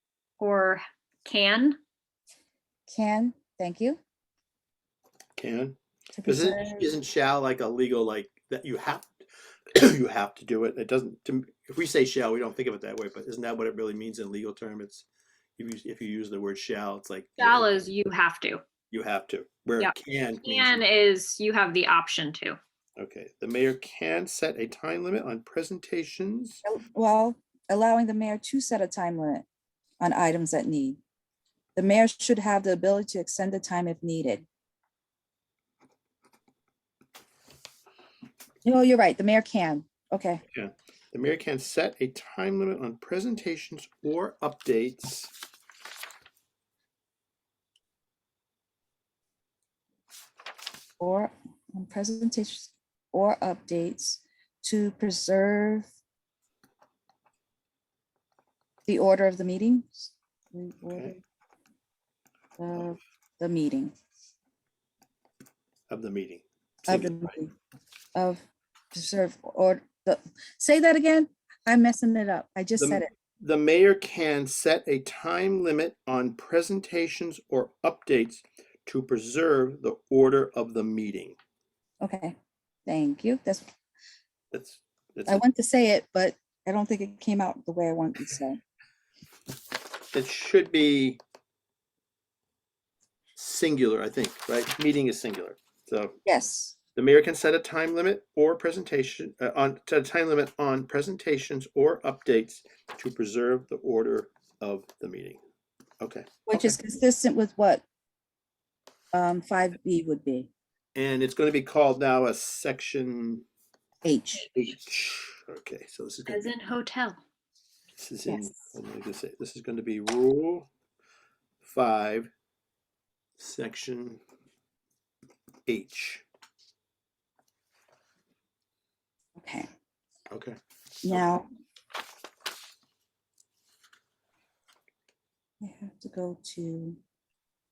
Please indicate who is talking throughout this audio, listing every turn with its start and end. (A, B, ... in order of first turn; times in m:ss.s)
0:00.4-0:01.8 A
0:02.9-0:04.0 B
0:05.4-0:09.1 C
0:06.2-0:06.9 B
0:09.7-0:15.0 C
0:15.6-0:17.7 C
0:17.4-0:18.6 A
0:18.9-0:20.8 C
0:19.8-0:22.6 A
0:23.0-0:26.6 C
0:26.6-0:29.4 B
0:30.0-0:31.0 B
0:31.8-0:34.4 B
0:38.6-0:40.4 B
0:40.5-0:45.3 C
0:51.0-0:55.9 B
0:58.8-1:01.2 B
1:00.9-1:01.2 C
1:02.6-1:03.9 B
1:05.9-1:07.4 C
1:06.9-1:07.5 B
1:08.1-1:13.1 B
1:12.8-1:21.4 C
1:22.0-1:22.3 B
1:22.8-1:23.6 B
1:24.5-1:25.4 C
1:25.2-1:28.6 B
1:30.1-1:31.2 C
1:33.4-1:36.2 C
1:36.2-1:36.8 B
1:37.0-1:45.4 C
1:46.0-1:46.8 C
1:46.5-1:47.8 B
1:49.1-1:50.5 B
1:50.9-1:53.4 C
1:54.0-1:54.5 B
1:54.5-1:56.5 C
1:56.3-1:57.2 A
1:58.0-2:00.7 C
1:58.3-1:58.6 B
2:01.6-2:02.3 C
2:03.4-2:04.2 C
2:05.7-2:06.2 C
2:09.4-2:09.7 B
2:10.3-2:10.6 C
2:11.0-2:11.5 B
2:15.6-2:17.0 B